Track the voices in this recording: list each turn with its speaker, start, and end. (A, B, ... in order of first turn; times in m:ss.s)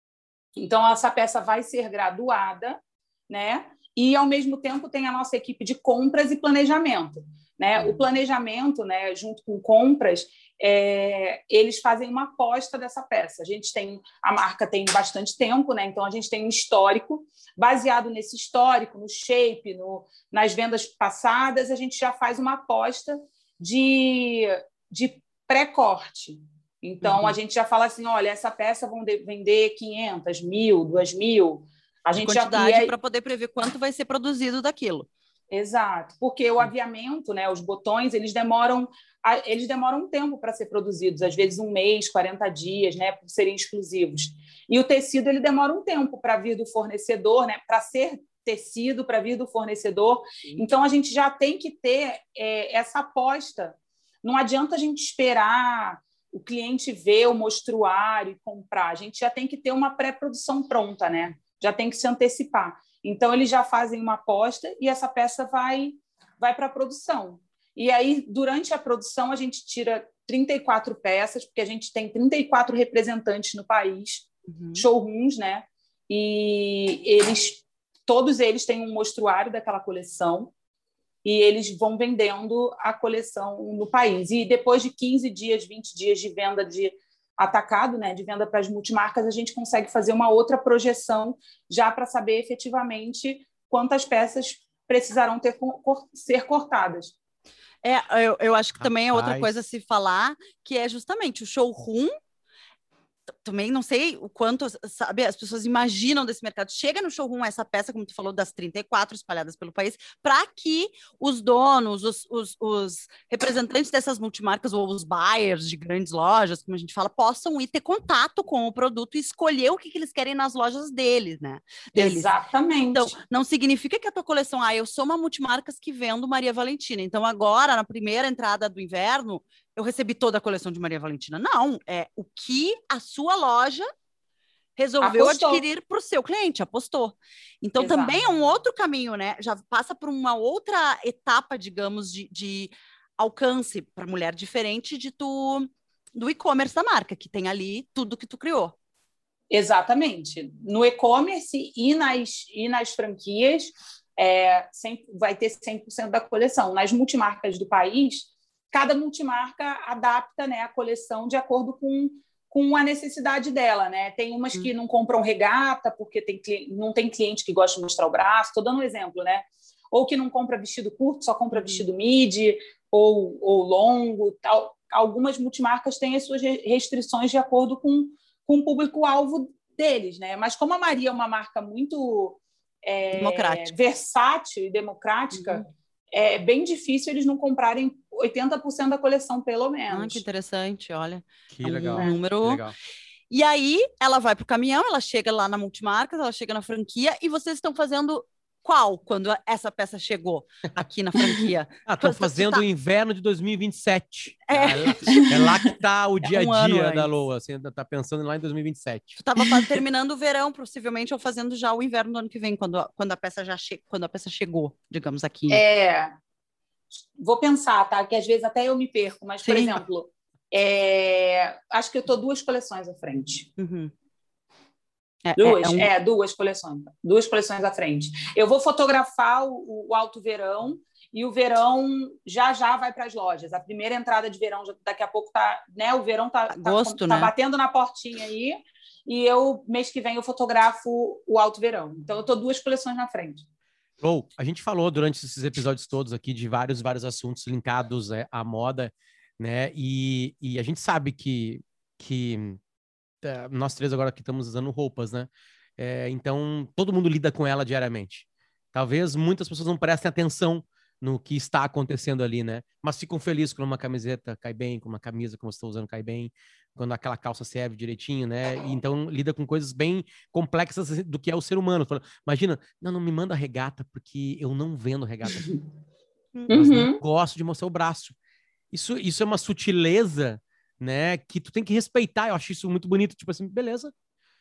0:00.6-0:02.8 A
0:03.3-0:32.9 A
0:07.8-0:08.0 B
0:27.0-0:27.4 B
0:32.2-0:35.1 B
0:35.5-1:20.5 A
1:14.5-1:14.8 B
1:21.2-1:37.2 A
1:37.8-1:42.1 B
1:38.8-1:39.5 C
1:43.4-2:02.3 B
2:02.0-2:03.1 A
2:02.9-2:13.9 B
2:14.8-2:28.8 B
2:15.0-2:15.6 A
2:17.8-2:18.2 A
2:29.5-3:10.2 A
2:51.5-2:51.8 B
3:03.1-3:03.7 B
3:05.3-3:05.6 B
3:09.9-3:12.6 B
3:11.5-3:12.8 C
3:13.3-3:22.6 B
3:21.9-3:29.2 C
3:24.5-3:25.4 B
3:25.1-3:25.6 A
3:26.2-3:27.1 B
3:29.2-3:35.6 B
3:35.5-3:36.2 A
3:37.2-3:43.5 A
3:39.4-3:39.8 B
3:43.6-3:43.9 B
3:45.2-3:45.9 B
3:45.4-4:03.4 A
3:56.5-3:57.3 B
4:04.0-4:12.6 C
4:13.2-4:35.5 C
4:36.5-4:37.0 A
4:36.5-4:38.2 C
4:38.7-4:43.9 C